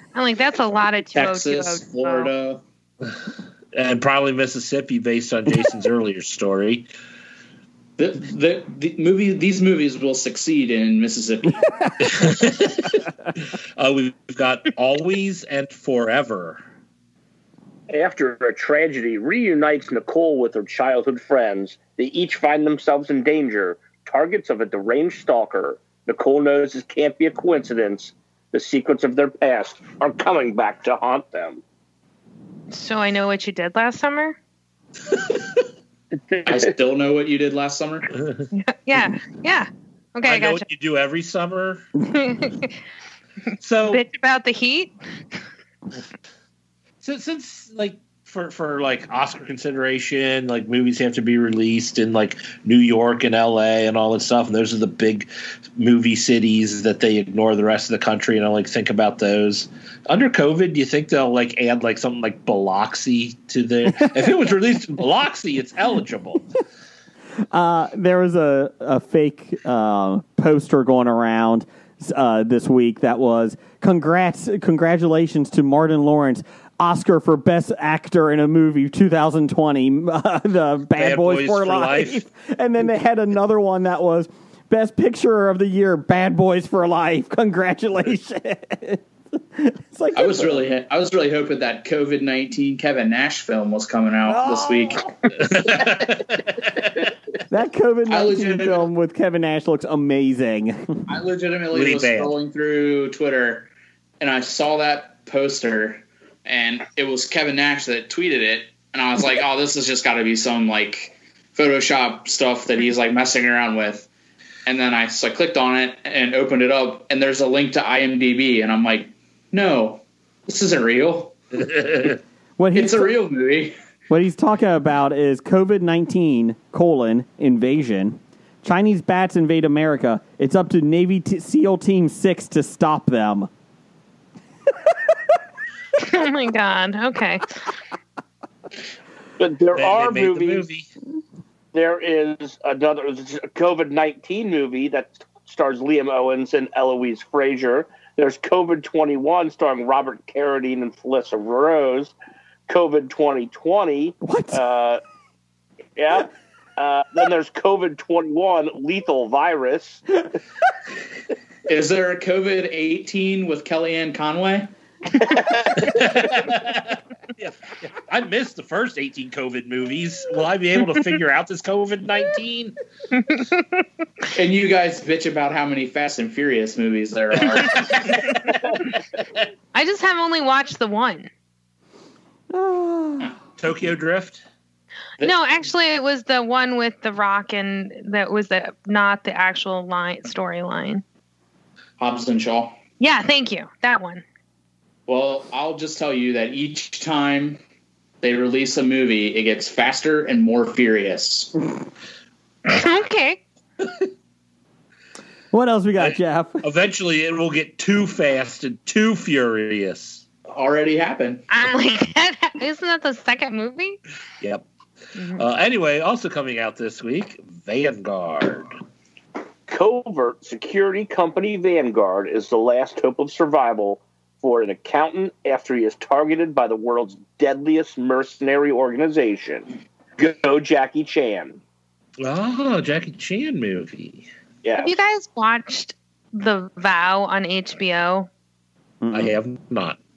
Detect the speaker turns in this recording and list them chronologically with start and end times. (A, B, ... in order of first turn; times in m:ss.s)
0:00.1-0:02.3 A
0:01.1-0:02.6 B
0:03.7-0:06.9 C
0:08.0-0:11.6 B
0:12.0-0:16.6 C
0:17.9-0:31.6 D
0:32.7-0:34.4 A
0:36.2-0:36.7 D
0:36.4-0:38.1 B
0:38.5-0:40.6 A
0:40.2-0:41.9 C
0:42.1-0:42.7 A
0:43.6-0:44.0 C
0:43.9-0:44.9 A
0:47.0-1:06.4 C
1:07.5-1:30.6 E
1:21.0-1:22.2 C
1:30.1-1:35.8 B
1:34.2-1:35.1 E
1:35.4-1:36.5 C
1:37.5-1:41.0 E
1:38.1-1:38.9 B
1:41.1-1:54.1 B
1:41.7-1:42.3 C
1:54.6-2:01.3 B
2:01.6-2:02.2 C
2:02.6-2:03.1 E
2:02.7-2:03.7 B
2:04.1-2:13.5 E
2:16.0-2:17.6 A
2:19.4-2:20.6 D
2:19.7-2:20.9 C
2:21.7-2:32.1 D
2:32.7-2:35.0 D
2:34.2-2:34.6 E
2:36.0-2:40.0 D
2:41.7-2:44.7 B
2:45.8-2:52.8 C
2:53.2-2:53.6 A
2:54.3-2:58.4 B
2:59.7-3:01.3 A
3:02.5-3:03.3 E
3:03.6-3:04.4 C
3:05.2-3:11.0 A
3:12.0-3:12.8 B
3:13.0-3:14.2 A
3:15.1-3:17.6 B
3:18.2-3:21.5 B
3:22.7-3:23.4 A
3:25.5-3:26.6 E
3:26.0-3:30.2 C
3:30.5-3:31.4 B
3:31.5-3:34.0 A
3:35.2-3:35.4 A
3:35.3-3:38.8 C
3:39.7-3:51.6 D
3:52.2-3:54.3 C
3:54.6-3:54.9 D
3:54.8-3:58.3 A
3:59.0-3:59.3 E
3:59.1-4:00.0 C